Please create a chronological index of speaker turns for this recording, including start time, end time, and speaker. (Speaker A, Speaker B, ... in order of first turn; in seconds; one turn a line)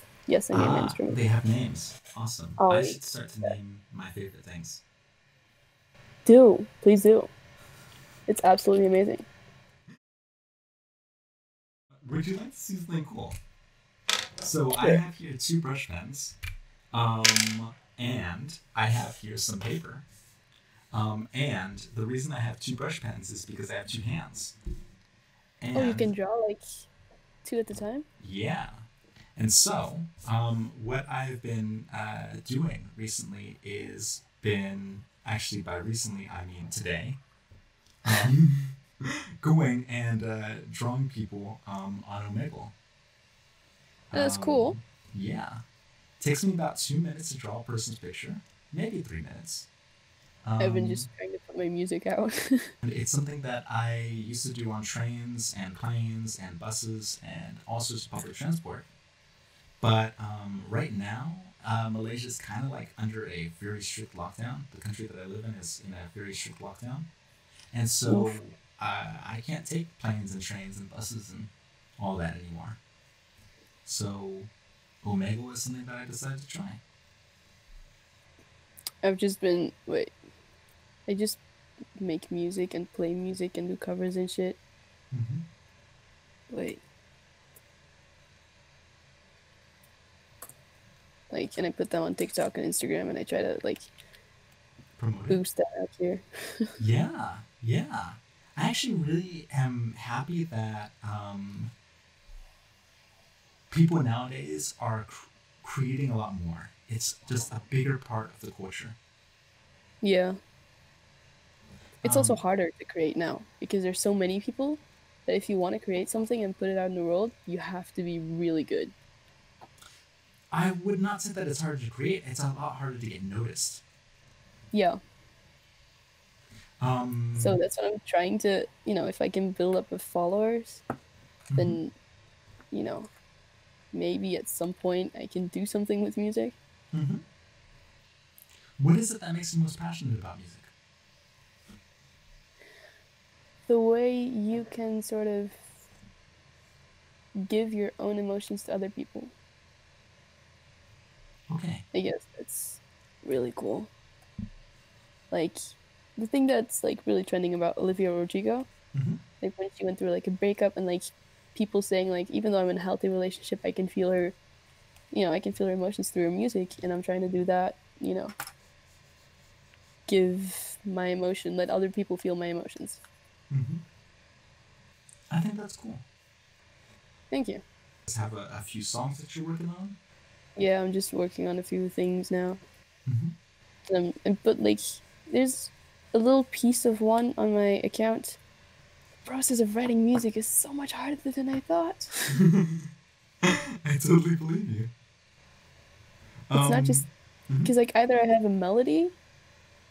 Speaker A: 0.3-1.2
Speaker B: 0.5-4.8
Speaker A: 2.6-3.5
Speaker A: 6.2-7.3
Speaker A: 8.3-9.2
Speaker B: 12.0-13.3
Speaker B: 14.4-16.4
Speaker B: 16.9-20.1
Speaker B: 20.9-24.5
Speaker B: 25.6-26.1
Speaker A: 25.7-26.9
Speaker A: 27.4-28.1
Speaker B: 28.2-28.8
Speaker B: 29.4-37.2
Speaker B: 38.0-42.7
Speaker B: 44.1-45.6
Speaker A: 44.1-44.8
Speaker B: 46.2-49.7
Speaker B: 50.4-51.1
Speaker A: 50.6-52.7
Speaker B: 52.8-58.9
Speaker B: 59.8-67.1
Speaker B: 67.7-72.8
Speaker A: 68.0-68.5
Speaker B: 73.8-74.5
Speaker B: 75.0-76.8
Speaker A: 79.0-80.1
Speaker A: 81.1-81.4
Speaker A: 82.0-84.6
Speaker B: 85.1-85.4
Speaker A: 86.5-86.8
Speaker A: 91.3-93.9
Speaker B: 95.0-95.4
Speaker A: 95.3-96.7
Speaker B: 96.8-101.7
Speaker B: 103.7-109.0
Speaker A: 110.0-110.3
Speaker B: 112.0-112.4
Speaker A: 112.0-118.9
Speaker B: 120.5-123.8
Speaker A: 124.7-125.0
Speaker B: 126.8-127.6
Speaker A: 127.4-130.8
Speaker B: 131.5-131.8
Speaker A: 131.6-131.9
Speaker A: 132.7-133.1
Speaker A: 133.9-136.6
Speaker B: 136.9-137.2
Speaker B: 138.8-140.7
Speaker A: 143.7-145.7
Speaker A: 147.4-149.3
Speaker B: 151.5-151.8
Speaker A: 151.9-153.9
Speaker A: 155.3-158.7
Speaker B: 158.9-159.2
Speaker A: 159.4-164.3
Speaker A: 165.1-168.3
Speaker A: 170.1-173.0
Speaker B: 173.5-173.8
Speaker B: 175.3-176.0
Speaker A: 177.3-177.6
Speaker B: 178.1-180.0
Speaker A: 180.6-182.6
Speaker B: 183.1-183.3
Speaker A: 183.9-188.4
Speaker A: 189.2-192.3
Speaker B: 192.3-192.9
Speaker B: 193.4-194.9
Speaker B: 196.5-197.7
Speaker A: 196.5-197.0
Speaker A: 197.6-199.1